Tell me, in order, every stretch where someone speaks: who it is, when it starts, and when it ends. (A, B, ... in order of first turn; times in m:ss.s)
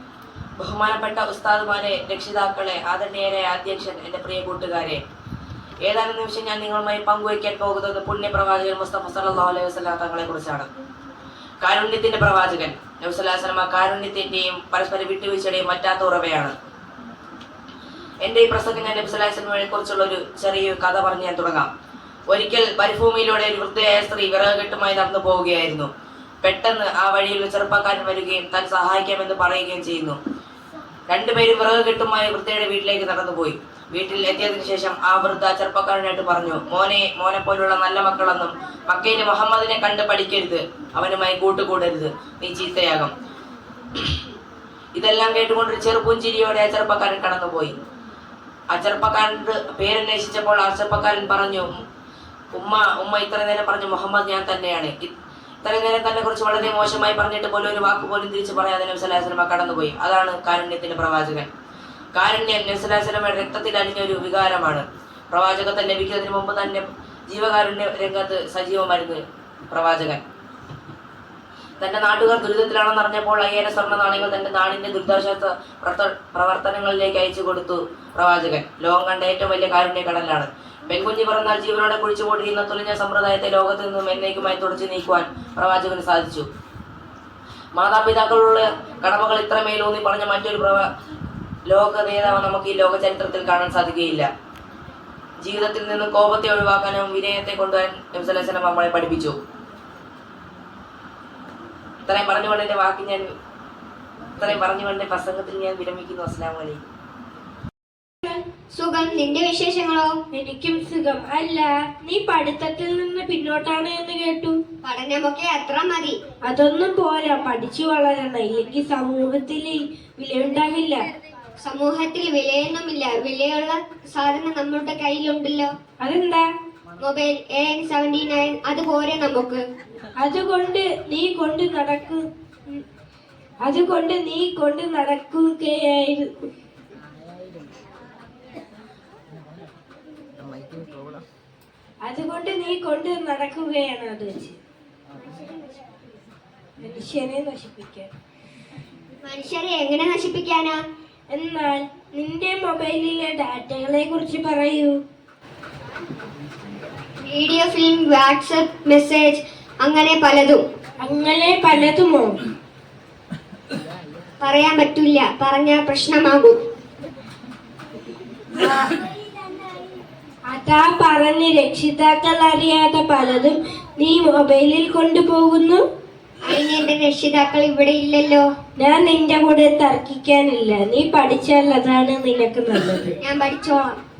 0:00.6-0:05.0 A
0:05.9-0:10.7 A
0:11.6-0:16.5 A
0:18.2-0:21.7 A
0:22.3-0:25.9 A
0:26.4-0:30.2 A
0:31.1-0:43.1 A
0:45.0-0:47.8 A
0:48.7-0:51.7 A
0:52.5-0:55.1 A
0:55.6-1:01.5 A
1:02.2-1:10.2 A
1:11.8-1:26.5 A
1:27.8-1:30.8 A
1:31.7-1:34.3 A
1:35.4-1:39.4 A
1:42.0-1:43.3 A
1:44.4-1:46.8 A
1:48.7-1:50.2 B
1:50.3-1:54.6 C
1:54.8-1:56.2 B
1:56.5-2:01.0 C
2:01.6-2:05.7 B
2:06.0-2:06.4 C
2:07.0-2:09.6 B
2:10.2-2:12.2 C
2:13.6-2:16.3 C
2:22.0-2:24.6 C
2:26.8-2:28.1 C
2:29.2-2:30.8 B
2:31.3-2:35.0 C
2:37.2-2:40.6 B
2:41.0-2:42.3 C
2:44.4-2:46.6 B
2:48.6-2:48.9 C
2:50.5-2:55.8 C
2:56.5-2:58.5 B
2:58.8-3:03.2 C
3:03.2-3:04.0 B